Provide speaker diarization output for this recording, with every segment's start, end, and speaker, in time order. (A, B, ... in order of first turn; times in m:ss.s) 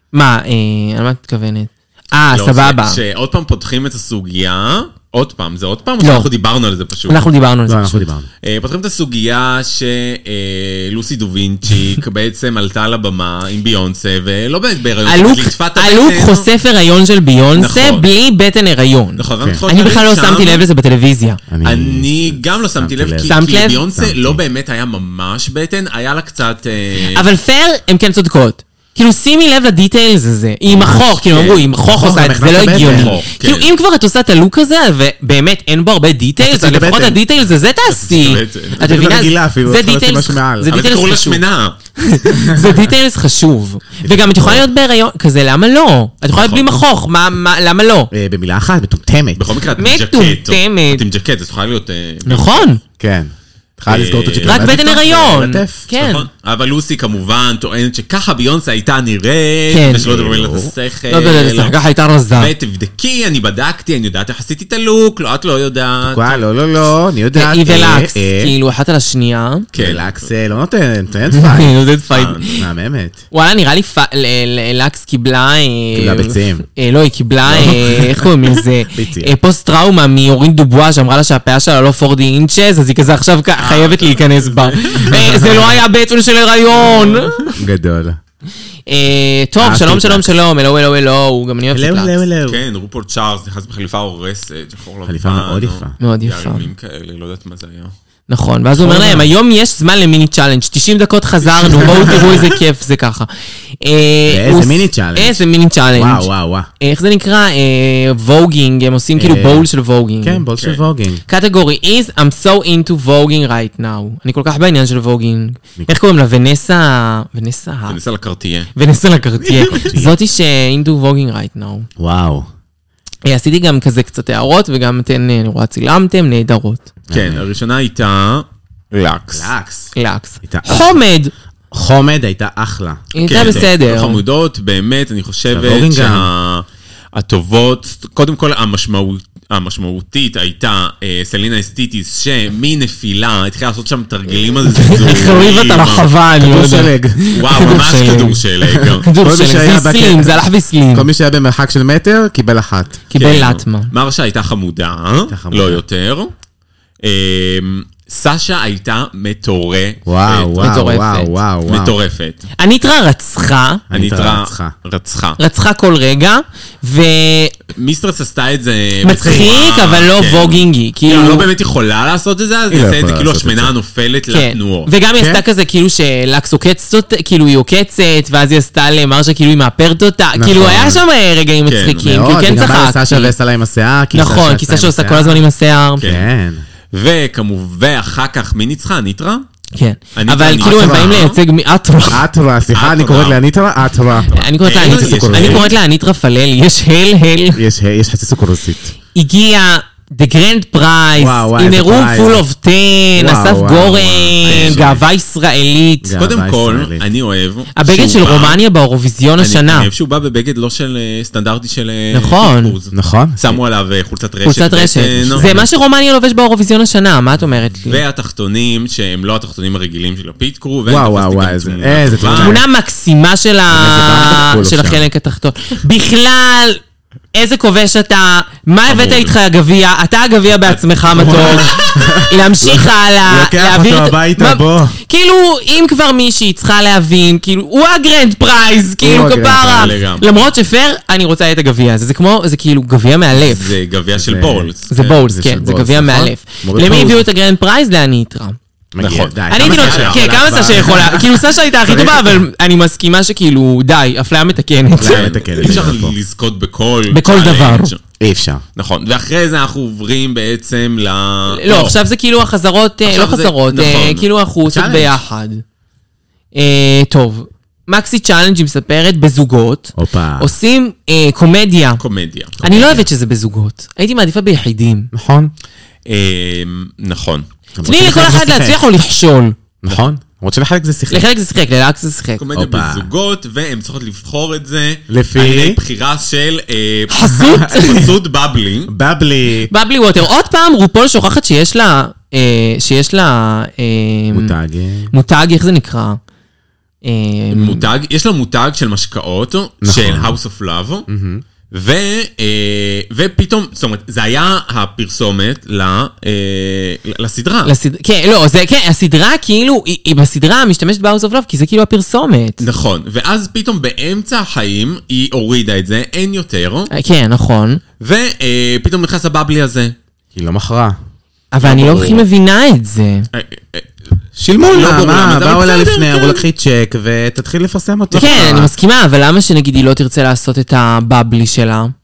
0:00.1-0:03.0 A
0:02.3-0:07.3 B
0:06.0-0:06.3 A
0:07.1-0:08.0 A
0:07.7-0:08.3 C
0:08.4-0:16.5 B
0:15.1-0:21.4 A
0:17.6-0:18.1 B
0:19.2-0:20.6 B
0:21.5-0:24.4 C
0:21.6-0:27.3 B
0:23.2-0:23.8 A
0:27.1-0:41.4 A
0:30.7-0:31.2 C
0:30.9-0:31.7 B
0:31.8-0:33.2 C
0:32.8-0:33.7 B
0:36.4-0:37.2 C
0:37.9-0:38.9 B
0:38.8-0:40.7 C
0:40.7-0:41.8 B
0:42.0-0:48.1 A
0:42.3-0:42.8 C
0:44.0-0:44.7 C
0:46.3-0:46.8 B
0:48.1-0:49.6 C
0:49.4-0:52.7 B
0:49.8-0:51.0 A
0:52.3-0:52.8 A
0:53.0-0:55.8 C
0:53.9-0:55.0 B
0:54.4-0:56.3 A
0:55.9-1:01.8 B
0:59.7-1:00.1 A
1:00.0-1:00.7 C
1:01.1-1:02.5 A
1:02.4-1:06.4 B
1:06.0-1:08.5 C
1:07.3-1:09.7 A
1:09.7-1:10.3 B
1:09.8-1:11.8 C
1:11.3-1:12.5 A
1:12.1-1:12.6 B
1:12.6-1:13.2 C
1:13.3-1:27.6 A
1:15.9-1:16.7 C
1:17.5-1:19.3 C
1:23.6-1:25.3 B
1:25.1-1:25.5 C
1:26.9-1:27.4 B
1:27.6-1:28.2 C
1:28.9-1:32.2 A
1:29.6-1:30.3 C
1:31.7-1:32.6 C
1:32.5-1:37.9 B
1:35.1-1:36.0 C
1:36.0-1:36.7 A
1:38.3-1:43.3 A
1:38.8-1:39.2 C
1:41.5-1:42.4 B
1:43.8-1:50.4 A
1:44.3-1:45.4 C
1:45.9-1:46.7 C
1:49.2-1:49.7 C
1:50.2-1:51.2 C
1:51.3-1:58.0 A
1:57.9-1:58.7 B
1:58.8-2:01.9 A
1:59.4-2:00.0 B
1:59.7-2:00.2 C
2:02.0-2:02.5 C
2:03.2-2:06.9 A
2:07.1-2:07.4 C
2:07.1-2:09.5 B
2:09.3-2:09.9 C
2:10.0-2:11.3 A
2:10.4-2:11.0 C
2:11.7-2:13.7 C
2:13.1-2:14.2 A
2:13.2-2:26.1 B
2:15.5-2:16.3 C
2:24.7-2:31.1 A
2:26.4-2:27.2 C
2:27.3-2:29.1 B
2:28.7-2:30.4 C
2:30.9-2:33.0 C
2:33.1-2:33.9 A
2:33.2-2:36.3 B
2:35.3-2:35.8 C
2:37.0-2:40.8 B
2:40.1-2:42.0 C
2:40.6-2:41.4 A
2:41.7-2:42.4 B
2:42.6-2:43.8 A
2:43.9-2:44.7 C
2:43.9-2:45.4 B
2:45.4-2:47.6 A
2:47.7-2:54.9 B
2:49.0-2:51.5 A
2:52.7-2:53.7 C
2:54.3-3:03.3 A
3:00.4-3:01.0 C
3:01.7-3:02.1 B
3:02.0-3:05.4 C
3:04.1-3:06.1 A
3:06.0-3:06.3 B
3:06.0-3:06.6 C
3:06.9-3:09.4 B
3:09.7-3:12.2 A
3:10.2-3:11.4 B
3:10.6-3:11.2 C
3:12.1-3:15.7 C
3:12.7-3:13.4 B
3:14.2-3:15.8 B
3:14.3-3:17.6 A
3:17.6-3:19.0 C
3:19.2-3:26.1 A
3:21.2-3:22.4 C
3:23.2-3:25.0 C
3:24.4-3:25.0 B
3:26.0-3:27.0 C
3:26.2-3:28.6 B
3:27.7-3:29.9 A
3:29.4-3:35.5 B
3:32.1-3:32.8 A
3:32.9-3:33.6 C
3:34.4-3:38.0 A
3:35.2-3:35.7 C
3:37.9-3:42.6 B
3:40.9-3:42.6 C
3:42.4-3:46.8 A
3:43.7-3:45.0 C
3:47.3-4:03.7 A
3:48.9-3:49.4 B
3:50.6-3:51.7 B
3:51.1-3:55.0 C
3:59.0-4:00.0 C
3:59.7-4:00.4 B
4:03.3-4:05.2 B
4:04.2-4:04.7 C
4:04.9-4:08.6 A
4:05.2-4:07.3 C
4:08.9-4:12.4 C
4:09.0-4:10.3 B
4:09.5-4:15.3 A
4:15.0-4:16.2 C
4:15.0-4:18.0 B
4:17.1-4:17.9 A
4:18.2-4:18.6 C
4:18.8-4:22.0 B
4:21.5-4:25.6 A
4:23.1-4:24.3 B
4:24.6-4:25.2 C
4:26.6-4:32.0 A
4:30.0-4:30.5 C
4:32.0-4:33.0 B
4:32.6-4:35.1 A
4:35.1-4:35.5 C
4:36.1-4:37.5 B
4:37.8-4:38.8 C
4:37.8-4:39.6 A
4:39.8-4:41.3 C
4:41.1-4:42.4 A
4:42.4-4:48.9 B
4:42.5-4:43.1 C
4:45.1-4:45.8 C
4:47.1-4:48.1 A
4:47.5-4:48.0 C
4:48.9-4:49.7 C
4:49.7-4:54.5 A
4:54.3-4:55.1 C
4:55.1-4:56.2 A
4:57.0-4:57.9 A
4:57.5-5:01.1 B
4:59.8-5:00.4 C
5:01.1-5:01.4 C
5:01.7-5:07.7 B
5:07.6-5:12.6 A
5:12.6-5:16.9 B
5:16.9-5:17.8 A
5:18.0-5:20.0 B
5:20.4-5:21.0 C
5:21.5-5:23.3 A
5:21.6-5:22.2 B
5:23.3-5:23.9 B
5:24.4-5:28.7 C
5:24.6-5:26.4 B
5:28.1-5:28.7 B
5:28.1-5:31.9 A